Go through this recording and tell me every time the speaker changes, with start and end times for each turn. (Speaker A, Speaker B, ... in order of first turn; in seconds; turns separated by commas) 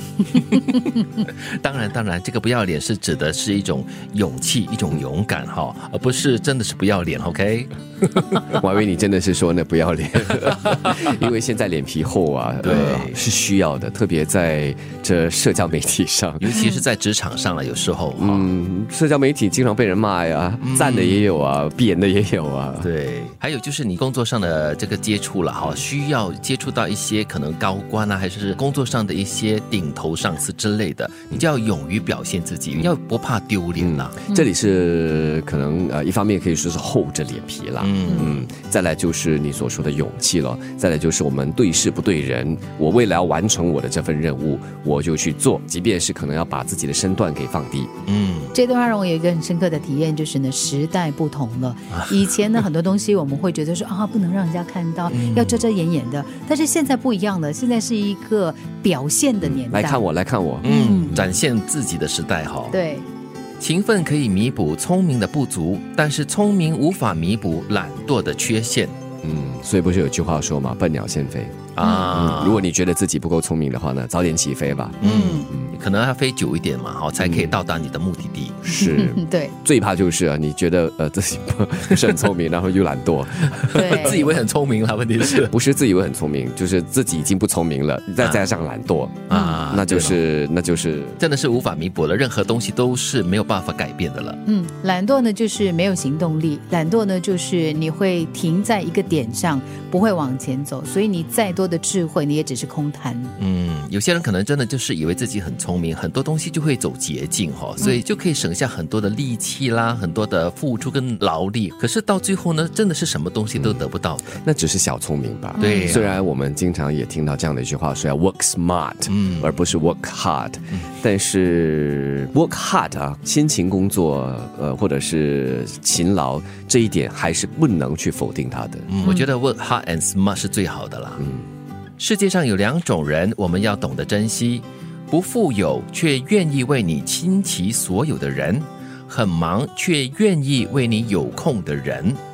Speaker A: 0.3-8.4, Speaker B: 8.5-16.6, Speaker A: 12.6-13.2, Speaker A: 16.4-18.5, Speaker B: 18.2-22.9, Speaker A: 20.6-21.3, Speaker A: 22.8-34.1, Speaker B: 33.8-47.9, Speaker A: 37.8-38.5, Speaker A: 48.1-48.5, Speaker C: 48.5-60.0, Speaker A: 55.1-55.6, Speaker B: 59.4-61.3, Speaker A: 60.6-62.8, Speaker C: 60.6-61.2, Speaker C: 62.7-63.1, Speaker A: 63.6-69.0, Speaker B: 69.2-75.0, Speaker A: 71.8-72.7, Speaker A: 75.0-78.6, Speaker C: 75.0-75.5, Speaker B: 77.2-77.5, Speaker B: 78.6-84.4, Speaker C: 78.7-79.5, Speaker C: 83.7-84.2, Speaker A: 83.8-85.5, Speaker B: 85.2-91.2, Speaker A: 88.2-88.5, Speaker A: 89.3-90.2, Speaker C: 89.3-89.6, Speaker A: 91.2-94.4, Speaker C: 94.5-103.3, Speaker A: 103.4-114.4, Speaker B: 114.4-128.9, Speaker C: 115.6-116.0, Speaker A: 115.6-116.2, Speaker A: 119.1-119.5, Speaker A: 128.9-131.2, Speaker B: 131.2-131.5, Speaker A: 132.0-142.2